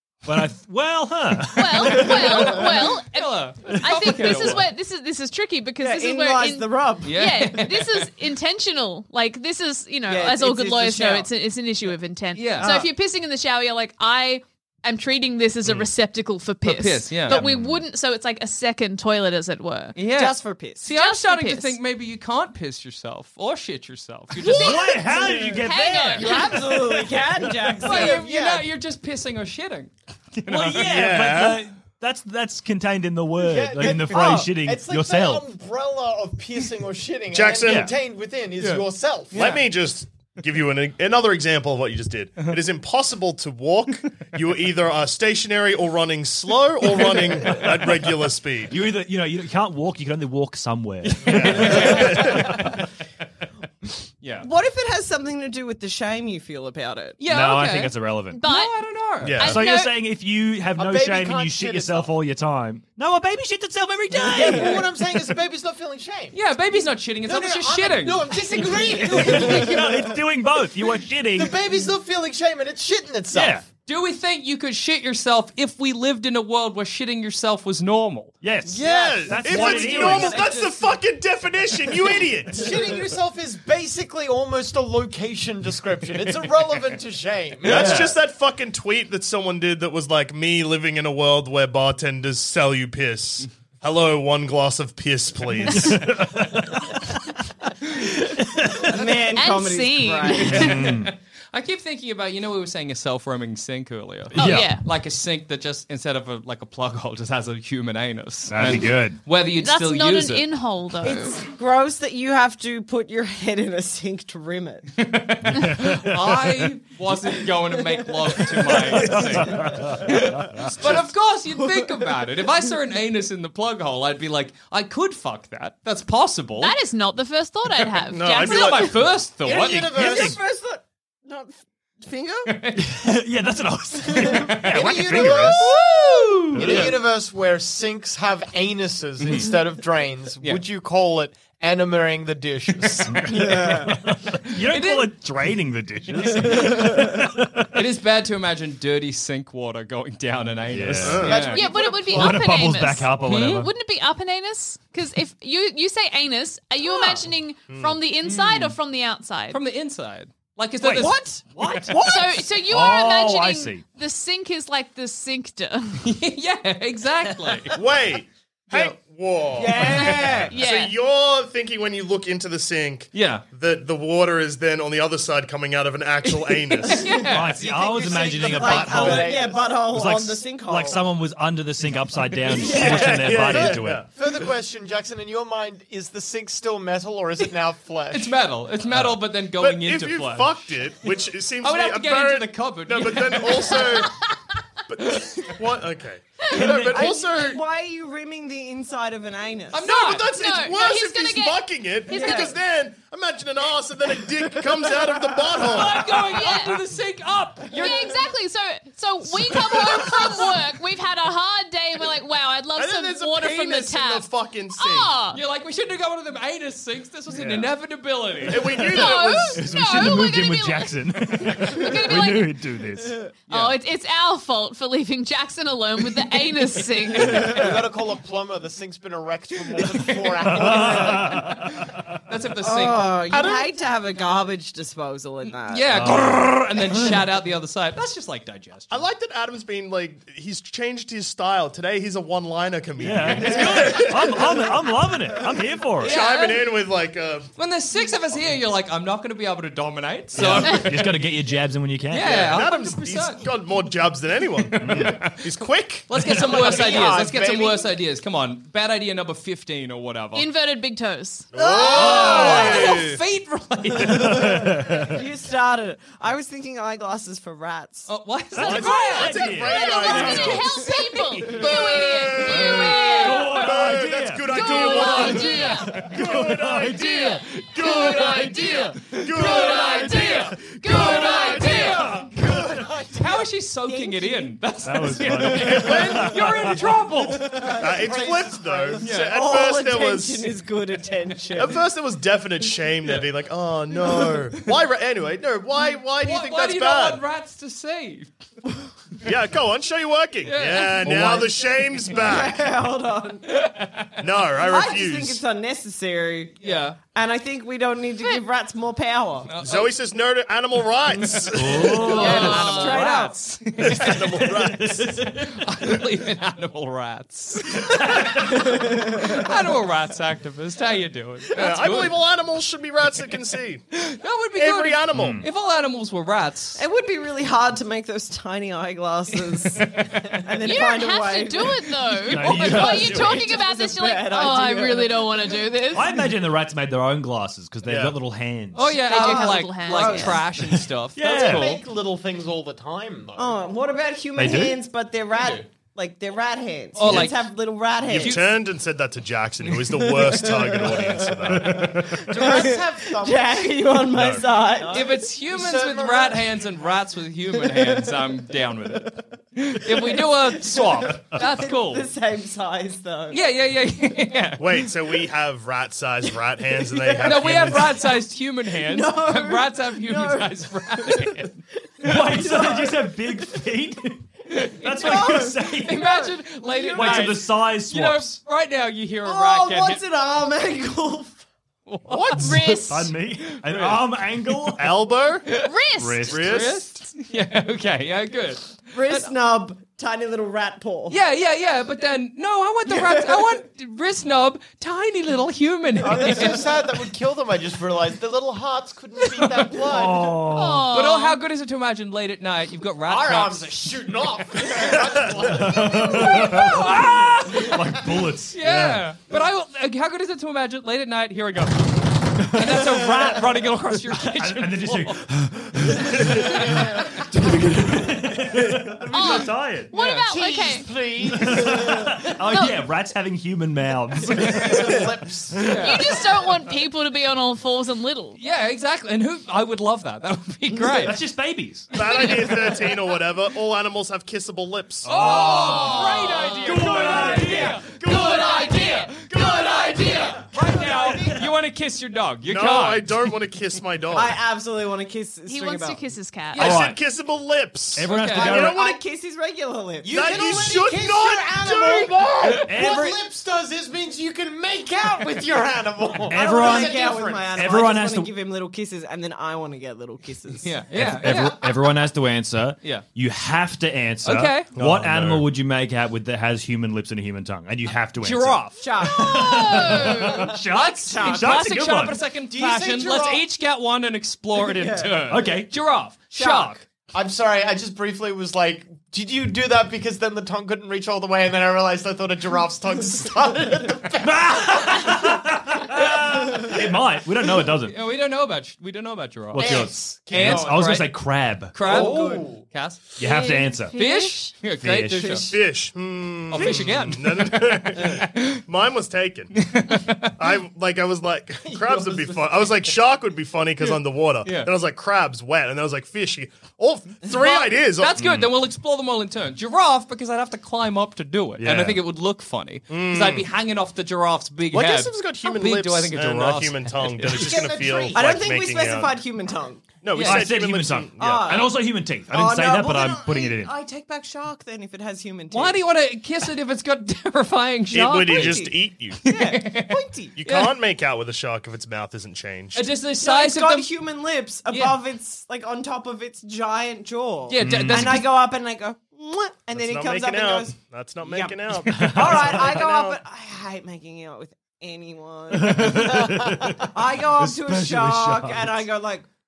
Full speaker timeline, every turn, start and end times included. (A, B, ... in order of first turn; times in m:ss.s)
0:00.2-0:02.6 A
0:01.5-0:20.0 B
0:02.3-0:04.7 C
0:05.8-0:07.4 D
0:07.0-0:08.1 C
0:10.1-0:11.3 D
0:12.4-0:12.8 C
0:12.6-0:12.9 D
0:16.6-0:17.4 C
0:17.3-0:17.8 E
0:20.0-0:24.9 C
0:20.1-0:20.8 D
0:20.8-0:21.8 B
0:24.4-0:26.5 B
0:24.4-0:27.3 A
0:25.1-0:25.5 D
0:26.2-0:28.2 D
0:27.8-0:30.8 C
0:27.8-0:28.7 F
0:30.5-0:35.5 A
0:30.8-0:31.6 E
0:33.4-0:39.5 F
0:34.1-0:34.5 D
0:37.3-0:37.9 E
0:37.6-0:37.9 A
0:38.6-0:39.6 C
0:39.3-0:48.7 E
0:48.7-0:52.8 A
0:51.2-0:52.6 E
0:51.3-0:52.6 C
0:54.2-0:54.5 C
0:54.4-0:57.2 D
0:57.2-0:59.4 C
0:57.3-0:58.4 A
0:58.3-0:58.7 B
0:59.2-0:59.6 E
0:59.3-0:59.9 B
0:59.4-1:05.3 A
1:00.7-1:02.1 F
1:04.2-1:06.4 F
1:06.3-1:08.2 C
1:07.2-1:10.2 F
1:08.6-1:11.6 A
1:11.3-1:13.6 F
1:13.3-1:13.6 A
1:13.8-1:18.4 C
1:18.4-1:20.4 A
1:18.8-1:22.8 E
1:18.8-1:20.7 D
1:18.8-1:19.2 F
1:22.5-1:28.1 F
1:27.6-1:36.0 E
1:27.6-1:28.1 A
1:35.6-1:37.1 A
1:38.0-1:38.9 A
1:38.8-1:40.7 D
1:38.9-1:39.4 C
1:39.4-1:40.8 B
1:40.2-1:50.5 C
1:40.5-1:41.1 A
1:44.3-1:44.7 A
1:44.4-1:44.8 B
1:48.5-1:49.2 A
1:49.6-1:51.4 B
1:51.0-1:54.9 D
1:55.0-2:06.7 C
1:55.5-1:56.7 A
1:57.7-1:58.1 D
1:58.7-2:00.9 A
1:59.5-1:59.8 D
2:01.5-2:02.2 D
2:06.6-2:09.0 B
2:08.1-2:09.1 E
2:08.3-2:10.1 C
2:09.4-2:10.4 F
2:09.6-2:10.4 A
2:09.9-2:12.5 D
2:12.5-2:12.9 C
2:12.8-2:15.7 A
2:14.1-2:14.5 D
2:14.3-2:17.0 C
2:14.7-2:15.8 F
2:16.5-2:16.9 A
2:16.5-2:23.2 F
2:19.2-2:19.5 C
2:23.0-2:27.8 A
2:23.3-2:24.0 D
2:24.6-2:25.1 C
2:26.7-2:27.1 D
2:27.7-2:31.7 C
2:30.7-2:31.3 A
2:30.8-2:31.6 E
2:31.2-2:32.2 F
2:31.5-2:39.6 B
2:32.0-2:33.7 A
2:33.2-2:33.6 C
2:37.7-2:38.0 E
2:38.3-2:38.8 C
2:39.5-2:41.2 C
2:40.8-2:43.8 A
2:41.0-2:42.2 D
2:42.0-2:46.0 B
2:46.0-2:47.7 C
2:47.7-2:57.1 E
2:49.5-2:50.5 D
2:49.9-2:50.9 B
2:53.1-2:53.4 C
2:56.7-2:57.6 C
2:57.1-3:04.0 A
2:57.6-2:59.8 F
2:58.0-3:01.0 D
3:02.6-3:03.2 D
3:02.6-3:04.1 E
3:02.8-3:08.4 F
3:08.1-3:10.7 C
3:09.5-3:14.2 E
3:11.6-3:13.9 C
3:14.9-3:17.6 E
3:15.2-3:15.5 C
3:16.5-3:17.1 A
3:16.7-3:19.8 D
3:19.7-3:20.3 C
3:19.8-3:26.0 E
3:20.1-3:22.5 B
3:22.1-3:22.6 D
3:24.8-3:25.5 D
3:25.7-3:28.2 C
3:26.0-3:26.8 B
3:27.7-3:35.4 B
3:32.8-3:35.2 E
3:35.3-3:38.9 C
3:37.4-3:37.7 E
3:38.4-3:39.7 E
3:38.9-3:42.6 B
3:39.5-3:43.2 A
3:43.5-3:47.5 B
3:43.5-3:43.8 C
3:47.3-3:51.4 F
3:49.9-3:53.4 C
3:50.4-3:51.8 A
3:52.6-3:55.9 D
3:53.3-3:53.7 E
3:55.6-3:59.0 C
3:55.9-3:57.2 A
3:58.9-4:04.6 E
4:03.0-4:06.1 A
4:06.0-4:07.5 E
4:06.0-4:06.6 C
4:07.6-4:11.0 C
4:10.3-4:12.5 A
4:12.1-4:13.5 C
4:12.2-4:17.0 E
4:14.7-4:15.4 C
4:14.8-4:15.2 A
4:16.1-4:20.5 C
4:16.4-4:17.9 F
4:20.3-4:23.0 B
4:21.5-4:23.2 E
4:21.6-4:24.6 C
4:22.0-4:22.6 A
4:24.0-4:25.1 A
4:24.4-4:28.1 D
4:28.1-4:29.4 C
4:28.6-4:30.2 A
4:28.6-4:30.9 E
4:28.7-4:33.6 B
4:29.9-4:30.3 D
4:31.4-4:40.4 E
4:32.4-4:39.0 A
4:34.5-4:36.1 B
4:37.0-4:42.1 B
4:39.2-4:42.4 C
4:40.8-4:42.2 A
4:42.4-4:43.4 F
4:43.1-4:47.6 C
4:43.8-4:44.6 D
4:44.8-4:47.0 A
4:45.7-4:46.4 E
4:47.4-4:48.0 D
4:47.8-4:50.5 E
4:47.8-4:49.1 F
4:49.0-4:49.4 C
4:49.1-4:51.8 D
4:51.5-4:57.2 E
4:56.2-4:58.3 C
4:59.2-5:02.6 E
5:00.4-5:01.2 C
5:01.0-5:01.6 D
5:02.1-5:03.5 D
5:03.5-5:04.1 C
5:04.2-5:05.4 E
5:04.5-5:09.5 D
5:06.6-5:07.0 C
5:09.5-5:09.9 C
5:09.6-5:12.0 E
5:11.5-5:12.7 A
5:11.8-5:14.5 C
5:12.0-5:13.6 D
5:12.3-5:12.9 B
5:13.8-5:15.1 E
5:14.0-5:15.6 A
5:15.3-5:22.2 C
5:18.0-5:18.6 A
5:18.7-5:19.1 D
5:21.5-5:23.8 E
5:23.9-5:26.8 C
5:24.5-5:25.4 E
5:25.1-5:25.4 A
5:26.8-5:35.3 D
5:30.6-5:36.2 B
5:32.3-5:33.5 A
5:32.4-5:32.7 C
5:35.9-5:38.9 A
5:37.8-5:38.2 E
5:38.7-5:41.8 C
5:38.9-5:40.5 D
5:39.0-5:40.4 B
5:41.2-5:41.7 A
5:41.2-5:43.6 F
5:43.3-5:48.5 D
5:44.4-5:44.8 A
5:45.4-5:45.6 F
5:47.0-5:47.5 C
5:48.0-5:48.5 C
5:48.1-5:52.0 E
5:50.0-5:51.5 D
5:51.5-5:52.2 A
5:52.2-5:55.0 D
5:52.3-5:54.0 F
5:54.1-5:54.5 E
5:54.7-5:56.6 F
5:54.9-6:02.1 C
5:57.6-5:58.1 D
5:59.9-6:03.4 D
6:03.3-6:04.9 C
6:04.6-6:08.0 E
6:06.8-6:07.7 D
6:07.2-6:11.5 C
6:08.7-6:11.4 D
6:12.0-6:14.2 A
6:12.1-6:13.6 D
6:14.5-6:20.0 C
6:14.8-6:16.1 A
6:14.8-6:17.5 D
6:16.9-6:18.4 A
6:19.2-6:21.4 D
6:21.9-6:22.6 C
6:22.1-6:22.6 F
6:22.4-6:23.1 B
6:22.8-6:25.1 A
6:23.5-6:24.0 C
6:24.8-6:25.5 E
6:25.6-6:26.4 B
6:26.0-6:26.7 A
6:26.3-6:29.3 C
6:26.3-6:26.9 E
6:28.9-6:31.2 D
6:31.1-6:36.7 C
6:36.0-6:40.3 F
6:39.4-6:39.7 C
6:39.8-6:41.0 A
6:40.5-6:41.4 B
6:40.9-6:44.9 C
6:43.0-6:47.0 F
6:45.2-6:49.1 A
6:45.8-6:47.8 C
6:48.5-6:55.2 C
6:52.6-6:52.9 A
6:54.2-6:59.9 A
6:56.2-6:57.1 C
6:59.1-7:00.9 B
6:59.9-7:00.3 C
7:00.2-7:02.1 F
7:01.3-7:05.9 A
7:02.5-7:02.8 B
7:04.4-7:05.7 F
7:05.6-7:06.2 C
7:05.7-7:08.4 B
7:08.4-7:11.2 C
7:10.9-7:12.2 A
7:11.9-7:15.4 E
7:15.0-7:20.4 C
7:15.0-7:19.8 A
7:15.7-7:17.1 B
7:20.3-7:21.4 F
7:20.7-7:21.4 A
7:20.8-7:21.2 D
7:21.1-7:23.2 C
7:22.4-7:24.4 E
7:24.1-7:26.1 D
7:25.4-7:26.7 B
7:26.6-7:27.0 A
7:26.6-7:28.9 E
7:27.9-7:28.8 A
7:28.0-7:28.5 C
7:28.2-7:28.9 F
7:28.4-7:30.1 D
7:30.0-7:37.8 F
7:30.1-7:32.1 E
7:32.4-7:32.8 C
7:32.5-7:33.2 A
7:36.3-7:37.0 A
7:36.3-7:40.8 D
7:37.5-7:38.3 A
7:40.6-7:41.7 C
7:40.9-7:52.2 A
7:44.2-7:44.7 C
7:44.8-7:45.5 E
7:48.2-7:48.9 C
7:48.8-7:49.5 D
7:49.0-7:50.5 B
7:50.6-7:56.8 C
7:50.8-7:51.8 D
7:52.5-7:53.4 F
7:54.6-7:55.2 D
7:55.3-7:55.7 A
7:56.3-7:56.8 D
7:57.1-8:05.0 F
8:04.3-8:08.0 A
8:07.8-8:11.2 C
8:09.5-8:11.8 A
8:09.6-8:11.1 F
8:11.7-8:13.0 C
8:11.8-8:12.7 F
8:13.2-8:14.0 A
8:13.2-8:14.5 B
8:13.9-8:15.5 C
8:14.8-8:15.4 A
8:15.2-8:15.5 D
8:15.5-8:19.6 E
8:16.5-8:18.6 C
8:16.6-8:17.4 A
8:19.5-8:20.3 C
8:20.4-8:28.4 E
8:21.6-8:22.8 F
8:24.4-8:24.7 C
8:27.5-8:37.7 C
8:31.6-8:32.0 A
8:32.9-8:33.5 E
8:34.7-8:39.2 E
8:37.3-8:38.4 F
8:37.6-8:39.8 D
8:40.0-8:41.5 E
8:40.1-8:40.5 C
8:40.2-8:43.7 A
8:41.2-8:45.8 D
8:45.5-8:48.7 C
8:47.9-8:49.2 E
8:48.2-8:50.4 D
8:49.2-8:50.7 C
8:50.4-8:52.9 E
8:52.7-8:54.0 C
8:53.1-9:09.3 D
8:54.7-8:55.0 C
8:57.5-8:58.3 C
8:57.6-8:58.2 A
8:59.7-9:03.2 E
9:01.8-9:02.8 A
9:05.5-9:08.8 A